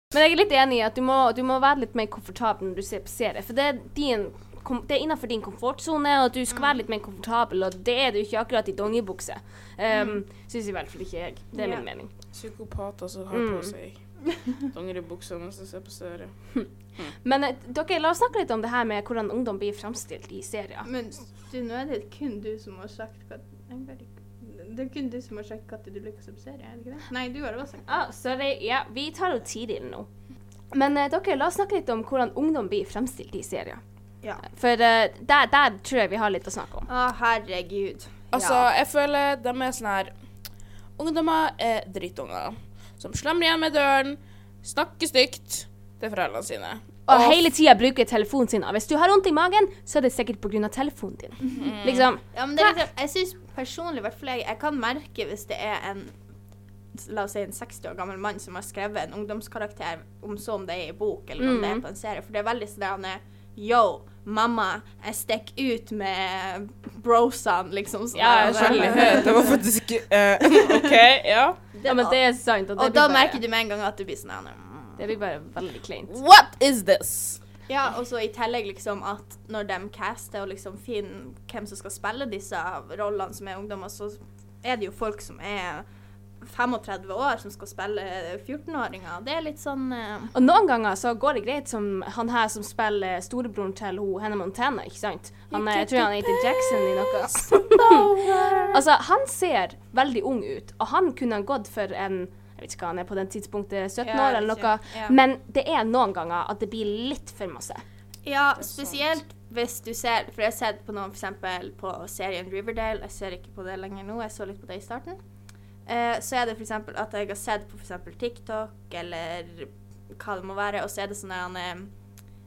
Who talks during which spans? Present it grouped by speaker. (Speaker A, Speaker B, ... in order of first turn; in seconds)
Speaker A: 0.1-12.1, 13.3-13.7, 17.2-20.9, 27.9-30.1, 30.7-33.8, 34.5-36.9, 47.1-52.8, 61.4-61.8, 68.1-69.5, 71.8-73.4, 75.0-76.1, 90.3-98.0, 98.7-107.8
Speaker B: 9.9-10.2, 11.5-11.8, 20.8-28.0, 36.9-38.6, 52.3-56.1, 56.9-69.6, 70.6-71.0, 71.7-72.2, 72.8-75.0, 77.7-85.8, 86.4-90.3, 97.5-98.8, 104.0-105.2, 108.2-115.2, 115.8-121.9
Speaker C: 12.3-14.0, 14.6-16.3, 38.3-40.1, 41.0-47.4, 51.5-52.1, 68.4-71.6, 76.1-77.4